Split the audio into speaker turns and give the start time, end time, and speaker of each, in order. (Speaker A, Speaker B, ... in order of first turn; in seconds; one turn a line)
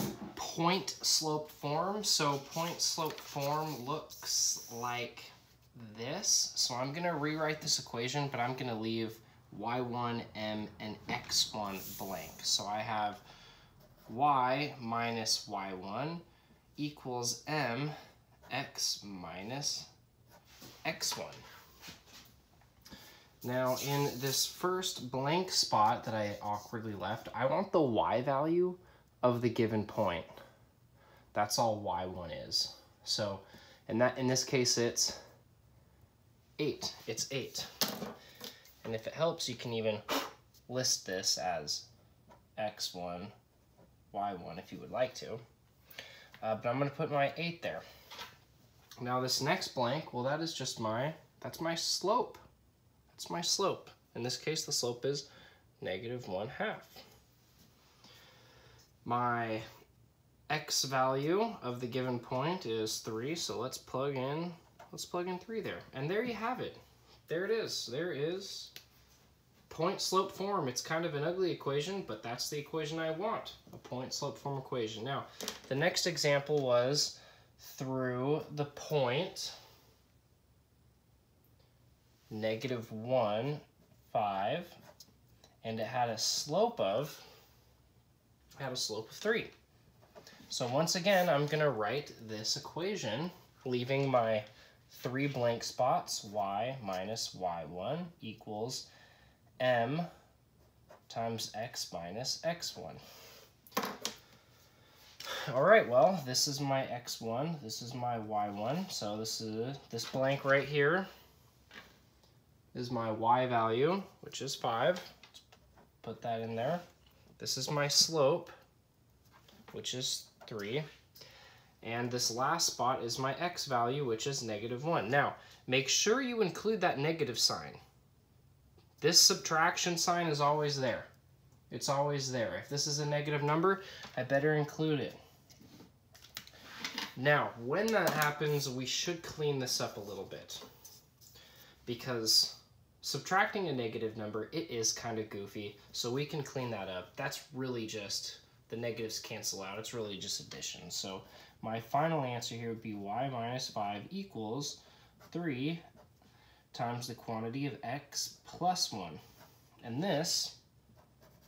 Speaker A: 0.3-13.2
Speaker A: 14.1-16.2
Speaker A: 16.8-17.9
Speaker A: 18.5-19.9
Speaker A: 20.9-21.4
Speaker A: 23.4-30.3
Speaker A: 31.3-35.2
Speaker A: 36.6-37.7
Speaker A: 38.8-40.0
Speaker A: 40.7-41.9
Speaker A: 42.6-43.3
Speaker A: 44.1-45.4
Speaker A: 46.4-47.8
Speaker A: 49.0-52.4
Speaker A: 53.1-55.3
Speaker A: 55.8-57.0
Speaker A: 59.0-59.7
Speaker A: 60.5-68.7
Speaker A: 69.7-79.6
Speaker A: 82.3-84.8
Speaker A: 85.6-87.2
Speaker A: 88.6-89.5
Speaker A: 90.5-98.9
Speaker A: 99.6-100.1
Speaker A: 101.1-103.0
Speaker A: 105.3-111.1
Speaker A: 112.7-115.4
Speaker A: 116.0-116.8
Speaker A: 117.4-118.5
Speaker A: 119.7-120.9
Speaker A: 121.8-127.8
Speaker A: 129.0-131.1
Speaker A: 131.7-135.2
Speaker A: 137.2-140.7
Speaker A: 141.8-155.8
Speaker A: 156.7-159.2
Speaker A: 159.8-160.6